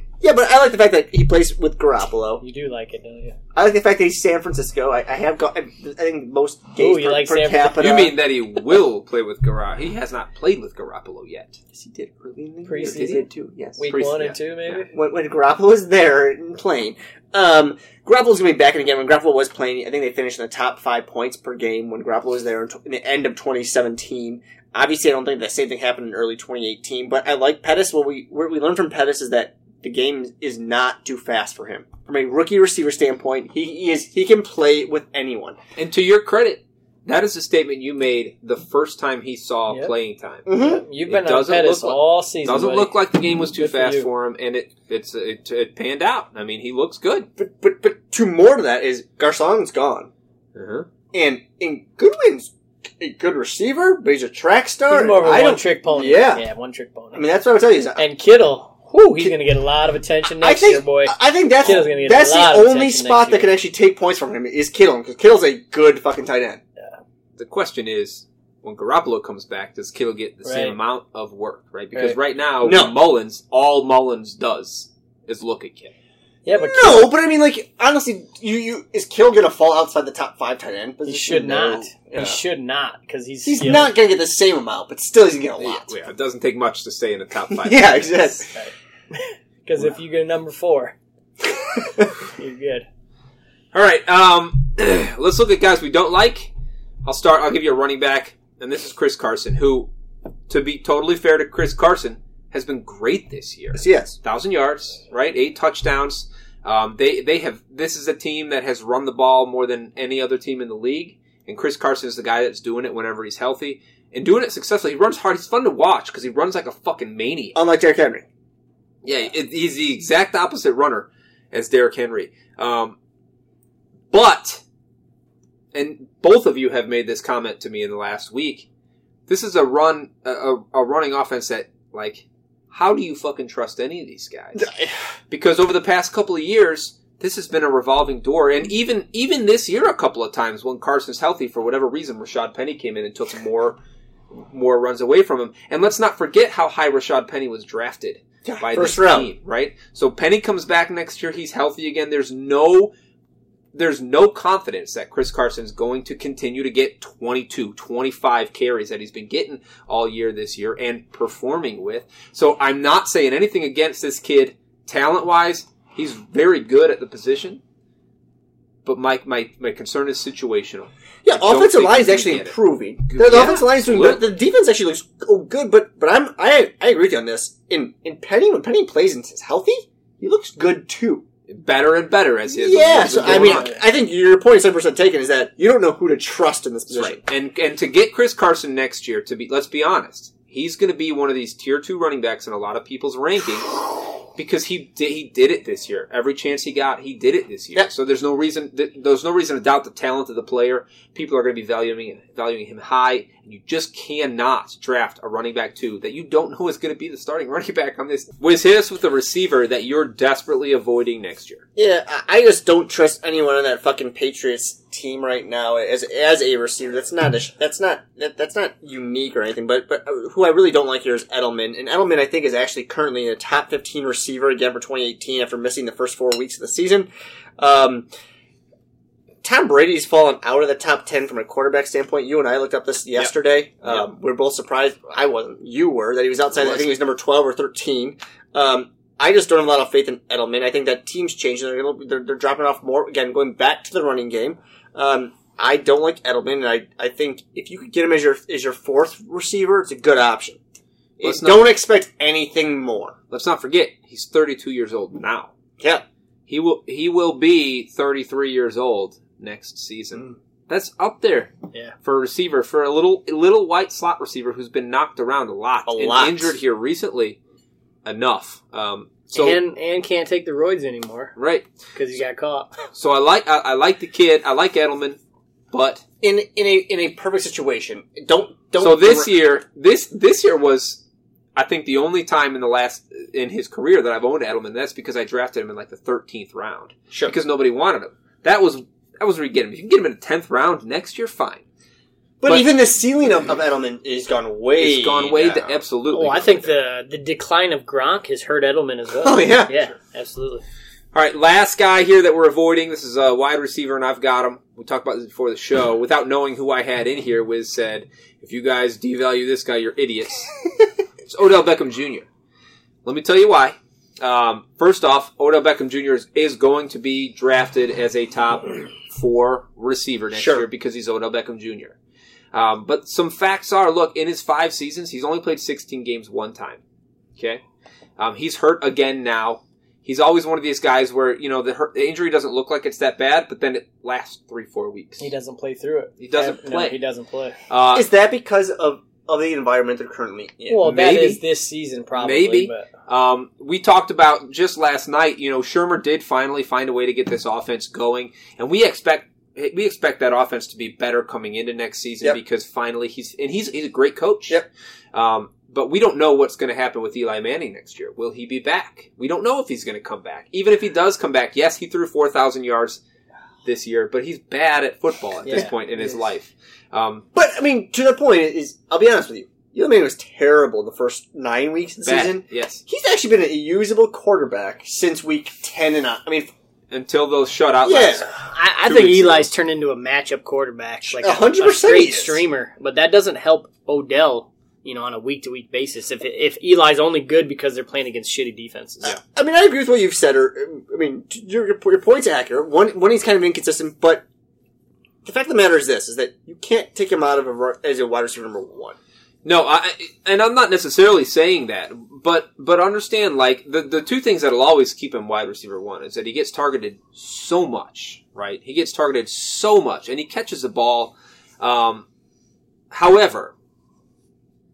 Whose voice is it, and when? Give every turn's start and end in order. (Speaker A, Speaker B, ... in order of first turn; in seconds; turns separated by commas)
Speaker A: 0.2-2.4, Speaker B: 2.4-3.4, Speaker A: 3.5-8.1, Speaker B: 6.8-7.8, Speaker C: 7.8-11.6, Speaker A: 11.7-13.9, Speaker B: 12.7-13.2, Speaker B: 13.8-14.9, Speaker C: 13.8-14.8, Speaker A: 14.9-35.6, Speaker C: 35.8-40.5, Speaker A: 40.5-40.8, Speaker B: 40.5-43.0, Speaker C: 41.0-47.3, Speaker B: 43.5-44.1, Speaker A: 47.4-50.1, Speaker C: 50.5-50.9, Speaker A: 51.1-56.4, Speaker B: 54.9-57.2, Speaker A: 57.1-58.0, Speaker B: 58.0-63.5, Speaker A: 60.4-66.6, Speaker C: 67.4-75.9, Speaker B: 70.4-70.8, Speaker A: 72.6-72.9, Speaker B: 76.4-77.1, Speaker A: 76.5-82.4, Speaker B: 81.0-83.9, Speaker A: 83.4-85.9, Speaker C: 85.6-88.2, Speaker A: 87.5-88.5, Speaker B: 88.4-91.0, Speaker B: 92.2-92.8, Speaker C: 93.7-96.5, Speaker C: 97.0-99.9, Speaker C: 100.5-117.5, Speaker A: 103.7-104.2, Speaker A: 117.5-118.2, Speaker C: 119.0-123.0, Speaker C: 124.1-124.6, Speaker C: 125.7-128.7, Speaker C: 129.3-134.7, Speaker A: 134.6-134.9, Speaker C: 135.3-143.8, Speaker C: 144.3-152.9, Speaker A: 148.4-149.3, Speaker C: 153.7-167.6, Speaker C: 168.8-172.5, Speaker A: 171.2-181.2, Speaker C: 173.1-174.2, Speaker C: 181.5-183.7, Speaker A: 182.5-187.2, Speaker B: 183.1-183.8, Speaker C: 186.9-211.6, Speaker A: 211.8-228.1, Speaker A: 229.4-250.6, Speaker C: 236.6-236.9, Speaker C: 251.2-251.7, Speaker A: 251.2-253.2, Speaker C: 253.3-255.5, Speaker A: 255.8-256.0, Speaker C: 256.5-267.4, Speaker A: 265.9-266.6, Speaker C: 268.0-269.6, Speaker B: 269.3-271.4, Speaker C: 271.4-271.7, Speaker B: 271.9-272.7, Speaker C: 272.9-275.2, Speaker C: 275.7-276.0, Speaker A: 276.2-279.3, Speaker C: 278.8-281.0, Speaker C: 281.6-291.6, Speaker A: 292.4-295.8, Speaker C: 294.8-296.7, Speaker B: 296.1-300.6, Speaker A: 299.2-299.7, Speaker C: 301.1-310.5, Speaker C: 311.2-312.3, Speaker C: 313.0-321.9, Speaker A: 320.3-320.6, Speaker C: 322.5-326.8, Speaker C: 327.4-327.6, Speaker C: 328.2-335.3, Speaker B: 335.2-337.6, Speaker C: 336.2-337.0, Speaker C: 337.7-338.1, Speaker A: 337.9-340.8, Speaker B: 340.7-342.9, Speaker C: 340.8-341.4, Speaker C: 342.2-354.6, Speaker C: 355.1-363.0, Speaker C: 363.6-367.2, Speaker B: 365.4-366.1, Speaker A: 367.3-376.5, Speaker C: 372.0-372.8, Speaker C: 376.9-378.3, Speaker A: 377.8-378.3, Speaker B: 378.3-389.1, Speaker C: 378.9-379.5, Speaker A: 381.1-382.4, Speaker A: 389.0-394.2, Speaker A: 395.2-399.0, Speaker C: 399.4-412.1, Speaker C: 412.9-413.5